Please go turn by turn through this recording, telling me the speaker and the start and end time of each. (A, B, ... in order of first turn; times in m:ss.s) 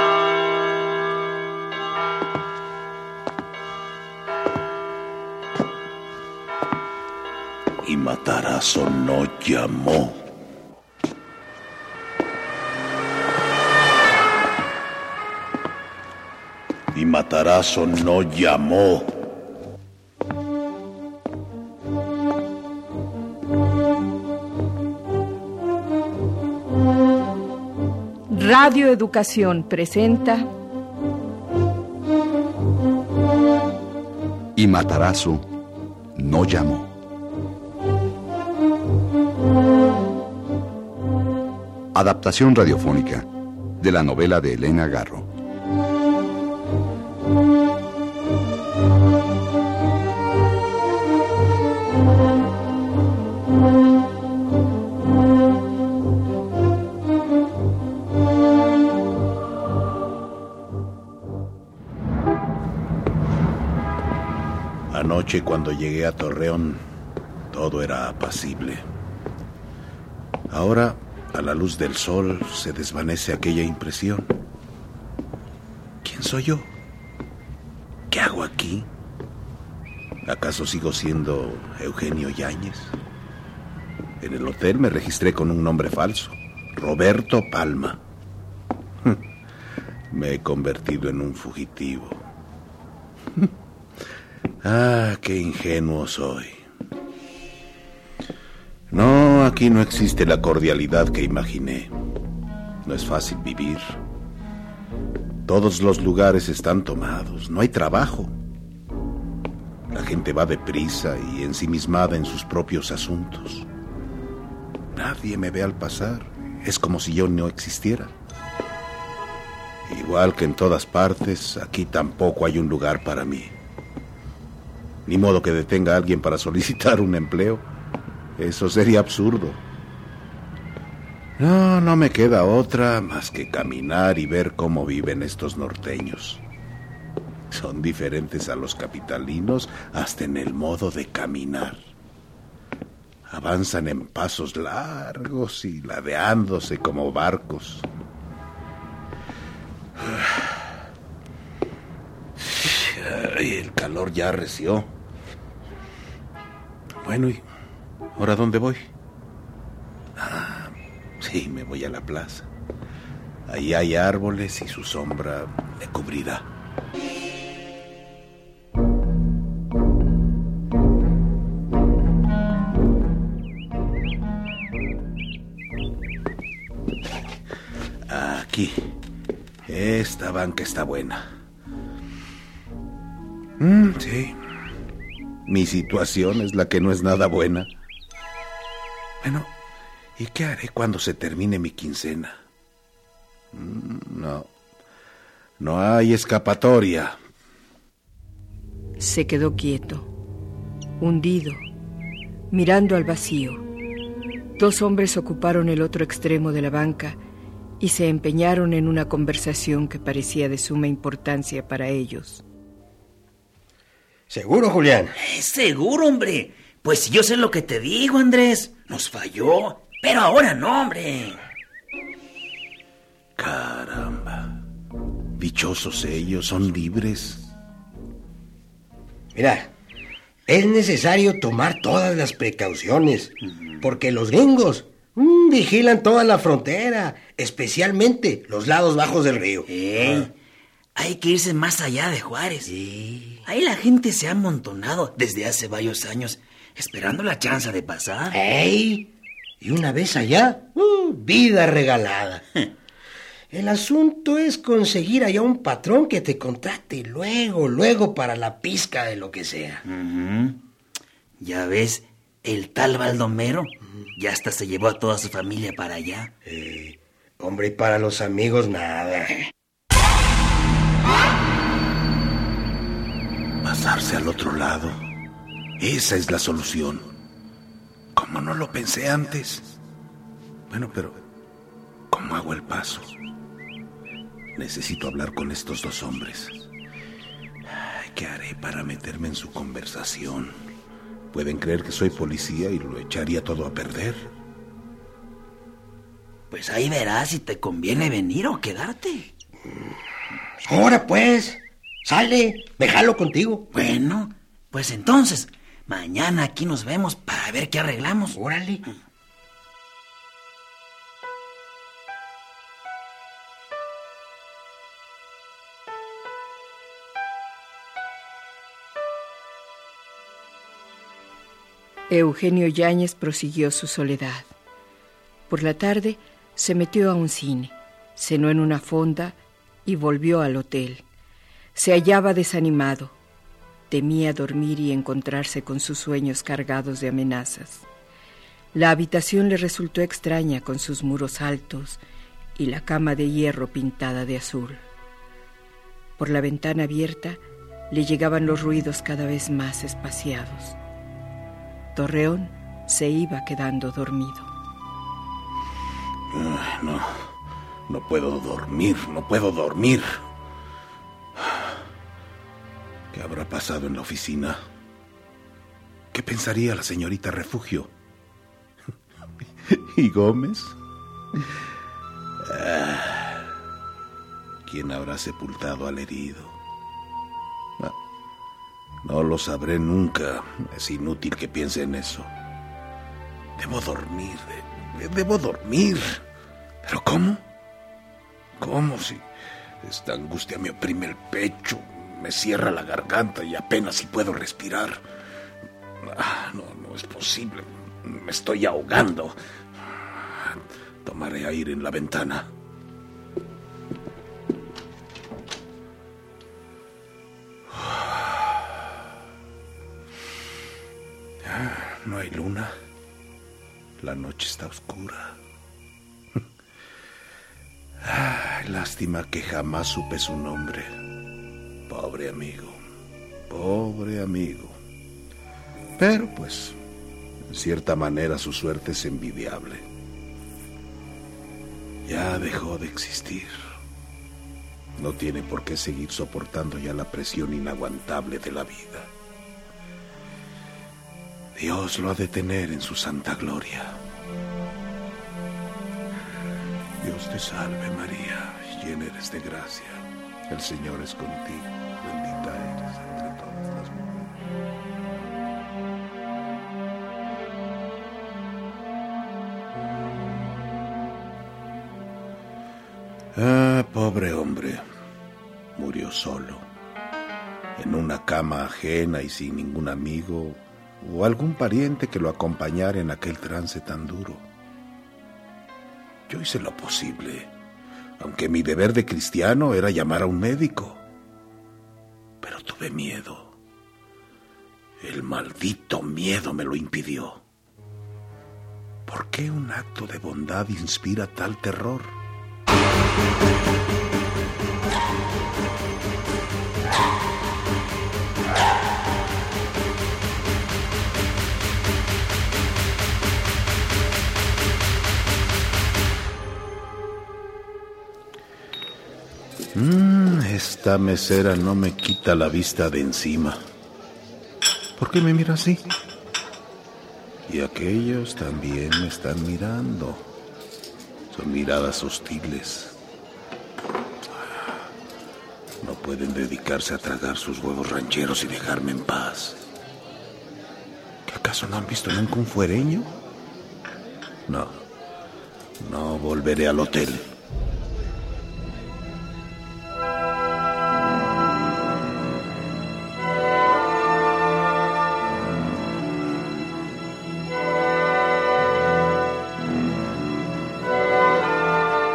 0:07.8-0:10.3 A
0:16.9-0:19.2 A
0:28.3-0:30.5 B
0:34.6-0:35.4 C
0:36.1-0:36.9 C
0:41.9-0:43.3 C
0:43.8-0:45.3 C
1:04.9-1:06.8 A
1:07.5-1:08.8 A
1:10.5-1:14.3 A
1:16.0-1:16.7 A
1:18.1-1:18.9 A
1:20.2-1:22.9 A
1:24.2-1:28.0 A
1:30.1-1:32.2 A
1:34.6-1:36.6 A
1:38.9-1:41.9 A
1:42.8-1:44.0 A
1:45.4-1:48.3 A
1:49.9-1:53.7 A
1:54.9-1:58.1 A
1:59.9-2:03.6 A
2:05.0-2:07.6 A
2:08.4-2:09.6 A
2:11.4-2:16.4 A
2:17.5-2:21.8 A
2:23.3-2:27.9 A
2:30.0-2:30.6 A
2:32.4-2:34.9 A
2:37.0-2:37.4 A
2:38.1-2:38.9 A
2:40.2-2:42.5 A
2:43.5-2:46.5 A
2:58.1-2:58.9 A
2:59.6-3:01.3 A
3:03.6-3:04.4 A
3:05.4-3:07.7 A
3:09.2-3:09.5 A
3:10.2-3:12.4 A
3:13.5-3:14.5 A
3:15.6-3:17.2 A
3:19.0-3:20.1 B
3:21.0-3:21.6 B
3:22.5-3:23.6 B
3:24.6-3:27.2 B
3:27.8-3:32.4 B
3:34.3-3:35.1 D
3:35.2-3:41.4 E
3:43.4-3:44.6 A
3:45.4-3:47.5 A
3:49.3-3:49.7 D
3:50.5-4:00.3 D
3:59.7-4:00.3 E
4:00.9-4:08.4 E
4:08.3-4:09.1 D
4:09.6-4:12.4 D
4:13.5-4:19.8 D
4:19.8-4:20.6 E
4:21.4-4:26.3 E
4:26.4-4:29.4 D
4:33.6-4:35.1 A
4:35.8-4:37.1 A
4:38.1-4:39.7 A
4:40.7-4:41.2 A
4:42.1-4:43.1 A
4:44.5-4:46.6 A
4:47.7-4:50.6 A
4:51.3-4:54.3 A
4:56.5-4:59.3 E
5:00.6-5:03.7 D
5:03.7-5:08.4 E
5:08.3-5:08.8 D
5:22.1-5:24.5 B
5:25.5-5:31.0 B
5:31.7-5:33.1 B
5:33.9-5:37.8 B
5:38.7-5:42.0 B
5:42.5-5:44.8 B
5:46.2-5:50.8 B
5:51.9-5:54.5 B
5:56.3-5:57.3 A
5:57.9-6:00.2 A
6:01.4-6:01.8 A
6:03.1-6:04.6 A
6:06.1-6:07.9 A
6:09.6-6:10.8 A
6:12.4-6:13.5 A
6:14.6-6:16.6 A
6:19.0-6:22.3 A
6:23.6-6:26.2 A
6:26.8-6:27.4 A
6:28.6-6:29.2 A
6:29.8-6:35.0 A
6:36.0-6:39.4 A
6:39.9-6:42.5 A
6:47.7-6:48.8 A
6:51.4-6:52.7 A
6:54.0-6:55.4 A
6:58.0-7:01.0 A
7:01.9-7:02.8 A
7:03.5-7:04.8 A
7:06.0-7:06.8 A
7:07.5-7:09.9 A
7:12.0-7:13.5 A
7:15.0-7:19.1 A
7:21.5-7:24.0 A
7:27.0-7:34.3 A
7:43.3-7:44.8 A
7:45.7-7:46.6 A
7:47.8-7:54.4 A
7:56.3-7:57.5 A
7:58.2-8:01.0 A
8:02.4-8:03.5 A
8:05.0-8:07.4 A
8:09.0-8:12.2 A
8:29.7-8:33.6 A
8:35.0-8:35.9 A
8:37.5-8:40.3 A
8:41.3-8:43.0 A
8:45.8-8:49.6 A
8:51.2-8:53.1 A
8:54.5-8:54.8 A
8:55.8-8:57.3 A